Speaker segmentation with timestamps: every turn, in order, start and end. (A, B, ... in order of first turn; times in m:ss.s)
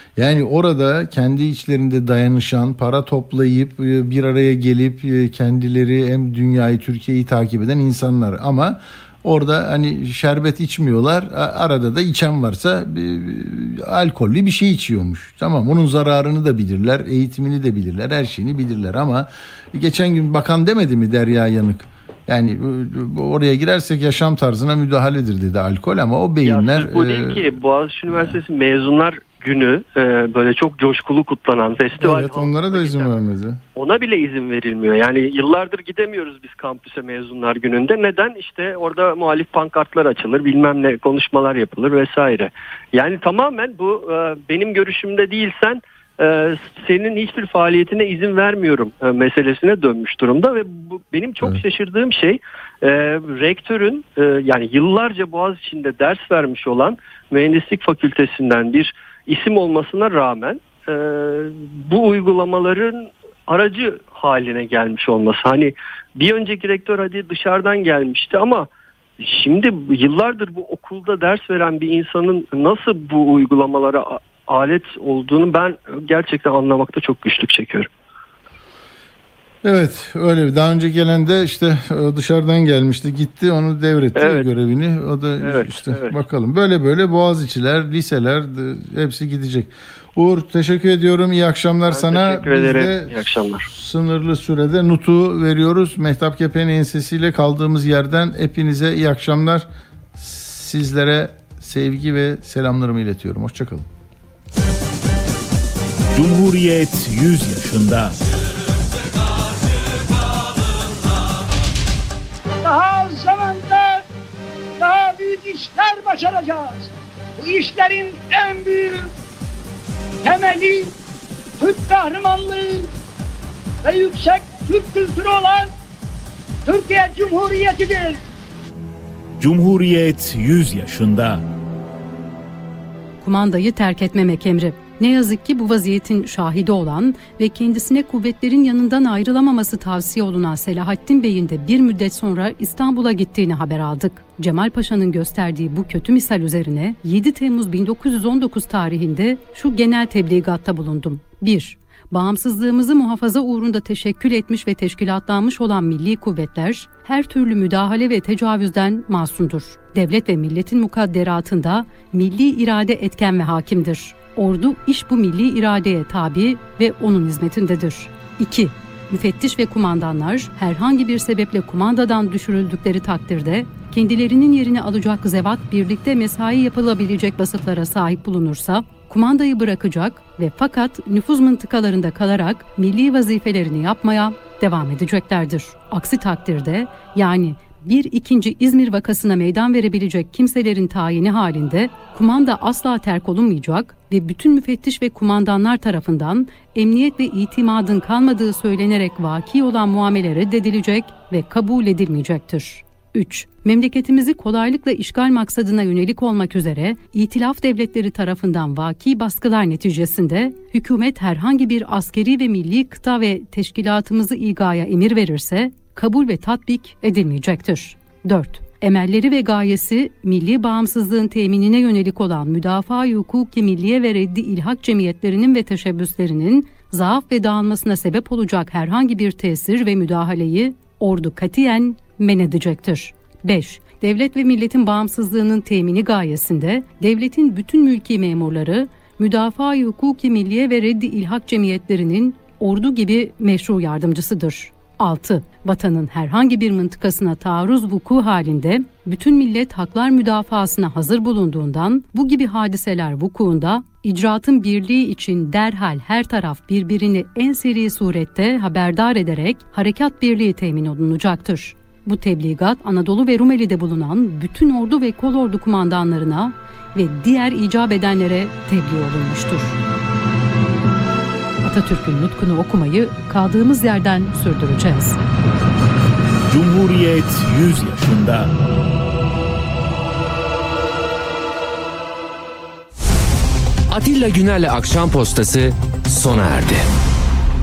0:00.2-0:27.6 A
0:26.4-0:33.1 B
0:28.1-0:28.4 A
0:32.0-0:33.6 A
0:33.8-1:08.7 B
1:09.2-1:17.9 B
1:19.6-1:43.9 A
1:24.2-1:24.5 B
1:25.4-1:26.2 B
1:31.9-1:33.7 B
1:46.1-1:48.2 C
1:52.6-1:54.0 D
1:54.8-1:59.1 D
2:00.2-2:00.9 D
2:01.6-2:02.9 D
2:03.8-2:05.7 D
2:06.7-2:08.2 D
2:09.4-2:11.4 C
2:13.2-4:29.8 E
4:31.6-4:35.2 E
4:36.5-4:38.5 C
4:43.9-4:46.9 F